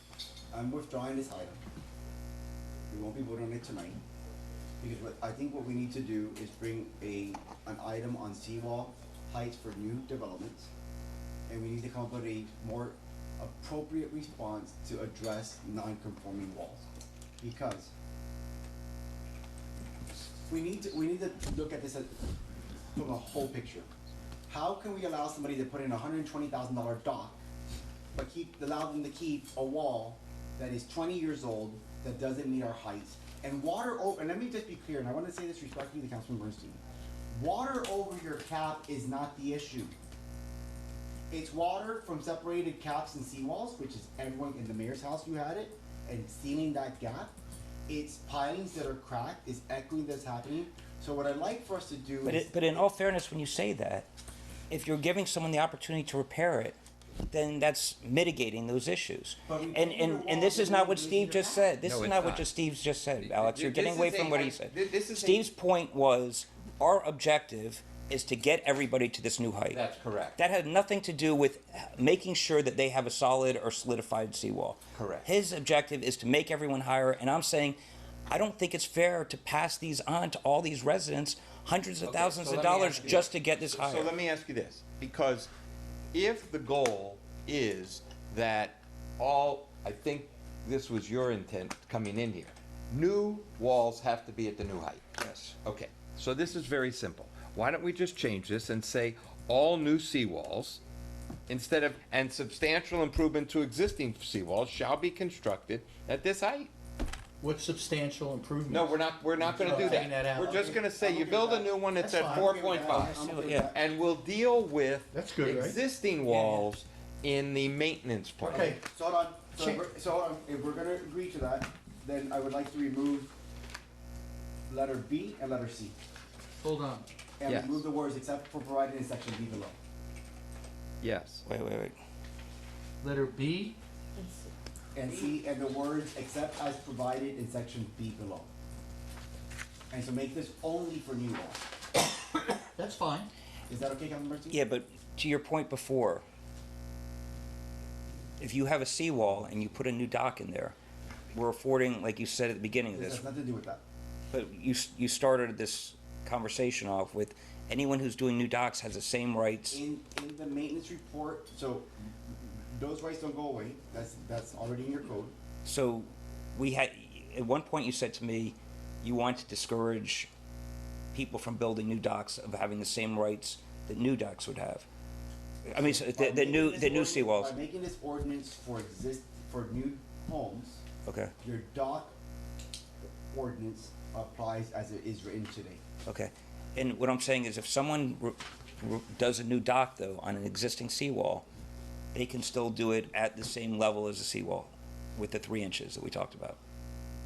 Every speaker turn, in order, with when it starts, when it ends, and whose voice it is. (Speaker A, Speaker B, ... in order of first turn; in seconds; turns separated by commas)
Speaker A: 0.5-1.6, Speaker A: 2.9-4.0, Speaker A: 4.8-10.7, Speaker A: 11.5-16.8, Speaker A: 17.4-17.9, Speaker A: 20.5-22.1, Speaker A: 22.9-23.9, Speaker A: 24.5-27.4, Speaker A: 28.1-36.8, Speaker A: 37.3-39.9, Speaker A: 41.3-47.3, Speaker A: 47.9-52.8, Speaker B: 52.2-54.1, Speaker B: 54.7-56.8, Speaker B: 57.3-69.8, Speaker A: 59.5-61.7, Speaker C: 61.8-62.5, Speaker C: 63.2-65.5, Speaker C: 69.7-70.4, Speaker B: 70.4-77.8, Speaker C: 74.9-75.3, Speaker B: 78.3-84.1, Speaker C: 82.0-85.5, Speaker C: 86.1-95.1, Speaker B: 95.2-95.5, Speaker C: 95.6-100.8, Speaker C: 101.5-106.7, Speaker D: 107.4-110.6, Speaker C: 108.7-118.7, Speaker A: 109.5-113.8, Speaker D: 112.1-112.5, Speaker B: 112.9-113.7, Speaker D: 115.1-116.6, Speaker D: 118.5-118.8, Speaker A: 118.5-123.3, Speaker A: 124.7-126.0, Speaker D: 126.6-127.1, Speaker A: 127.4-129.8, Speaker C: 127.5-127.9, Speaker C: 131.0-131.4, Speaker B: 131.5-132.0, Speaker D: 133.0-133.8, Speaker A: 134.9-138.5, Speaker A: 139.9-141.6, Speaker D: 142.8-143.3, Speaker A: 143.7-144.6, Speaker B: 144.5-146.2, Speaker B: 148.4-150.8, Speaker B: 151.3-153.2, Speaker A: 152.9-153.8, Speaker B: 154.3-159.8, Speaker A: 159.7-165.3, Speaker B: 165.7-170.3, Speaker B: 171.1-174.9, Speaker B: 175.7-177.6, Speaker A: 175.8-180.8, Speaker B: 181.1-181.3, Speaker A: 181.4-182.1, Speaker A: 183.3-185.8, Speaker B: 186.1-191.4, Speaker B: 192.1-196.6